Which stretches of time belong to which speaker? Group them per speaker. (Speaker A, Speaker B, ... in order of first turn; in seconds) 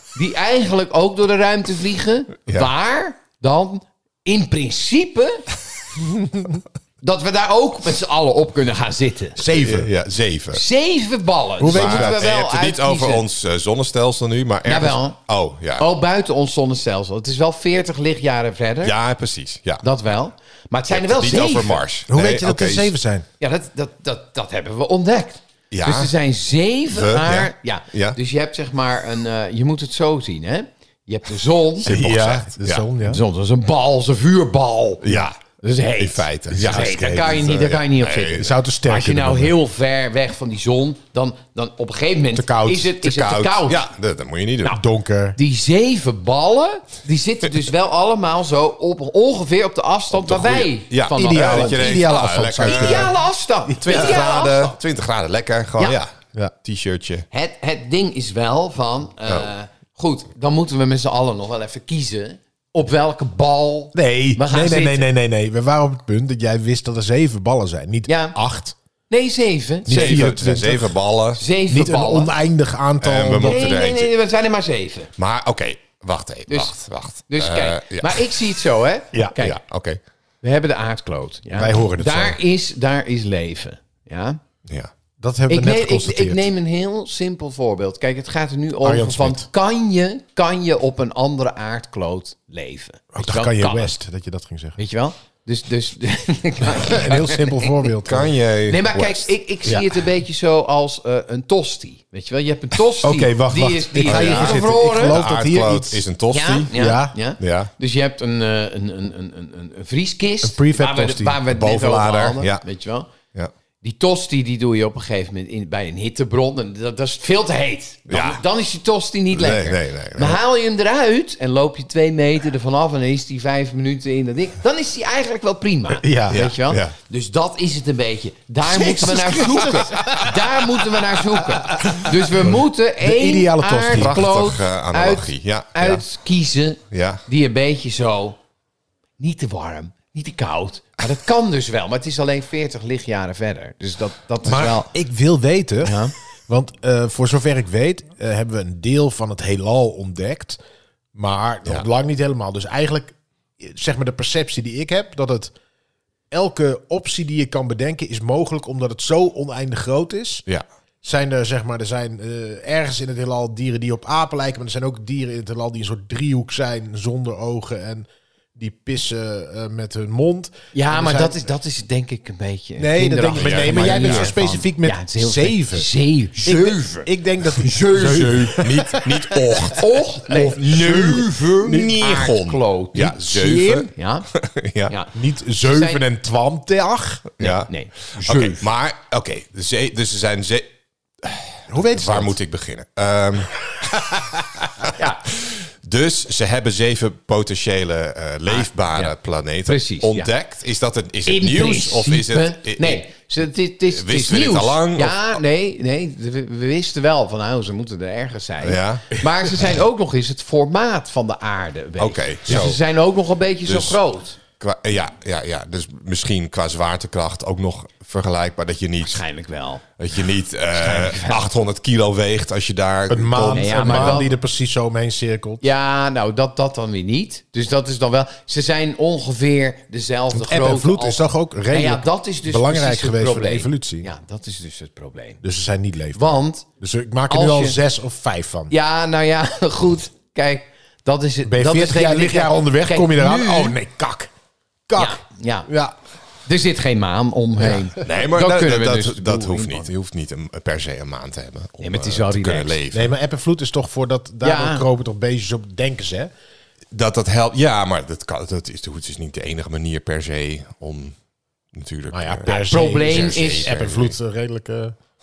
Speaker A: 0.1-5.5, 7.0-9.4, 10.5-13.2, 14.7-15.2, 15.8-18.9, 19.8-21.8, 23.4-31.9, 33.0-35.1, 35.6-43.8, 45.4-54.8, 57.3-65.1, 68.1-68.4, 69.1-70.3, 71.4-72.3, 73.4-75.1, 76.5-76.8, 77.3-79.6, 80.4-84.4, 85.5-93.9, 94.8-97.9, 98.7-105.2, 106.3-113.1, 113.8-138.4, 139.2-144.9, 145.8-146.1, 170.7-178.7, 179.7-183.2, 183.9-184.3, 184.9-186.0, 187.4-188.7, 194.9-195.2, 198.5-199.1, 199.7-200.3, 201.3-214.4, 219.0-219.8, 220.7-221.5, 223.5-224.3, 225.6-235.4, 236.2-236.7, 237.3-237.8, 238.7-243.8, 245.0-245.7, 246.5-249.9, 251.8-252.8, 254.4-254.9, 262.5-263.8
Speaker B: 9.4-9.9, 11.6-12.2, 22.1-23.3, 31.9-33.2, 36.5-37.6, 38.4-39.6, 42.4-42.9, 44.7-45.4, 51.1-53.1, 63.9-68.8, 69.9-71.0, 71.7-73.7, 81.5-82.4, 85.2-86.5, 88.8-89.5, 93.1-94.8, 96.7-98.3, 99.7-99.9, 103.0-106.0, 106.7-107.2, 110.4-111.4, 126.0-126.5, 128.6-134.3, 144.4-150.6, 151.2-155.5, 156.3-160.4, 161.0-171.5, 172.8-179.8, 180.3-180.6, 183.0-183.9, 185.1-187.3, 191.7-192.4, 194.0-194.4, 223.1-225.7, 230.3-234.1, 235.4-238.7, 241.5-244.3, 244.9-245.9, 252.9-256.3, 262.1-265.0
Speaker C: 9.4-10.6, 11.7-15.9, 18.8-19.8, 20.9-22.9, 25.7-26.1, 26.9-28.2, 31.9-32.9, 35.0-35.4, 36.0-38.5, 43.0-44.8, 50.1-53.1, 53.8-57.3, 69.9-71.4, 73.0-74.1, 75.2-78.3, 79.4-80.0, 98.0-99.3, 104.0-106.7, 107.4-107.7, 111.5-112.6, 118.1-118.4, 119.3-120.4, 126.3-126.9, 133.9-136.0, 136.9-137.2, 173.4-174.4, 178.6-185.0, 187.4-190.7, 191.2-203.0, 203.9-205.4, 208.6-209.2, 212.0-212.8, 213.7-214.0, 214.6-219.2, 220.0-224.2, 248.0-253.1, 256.9-261.2, 261.7-264.1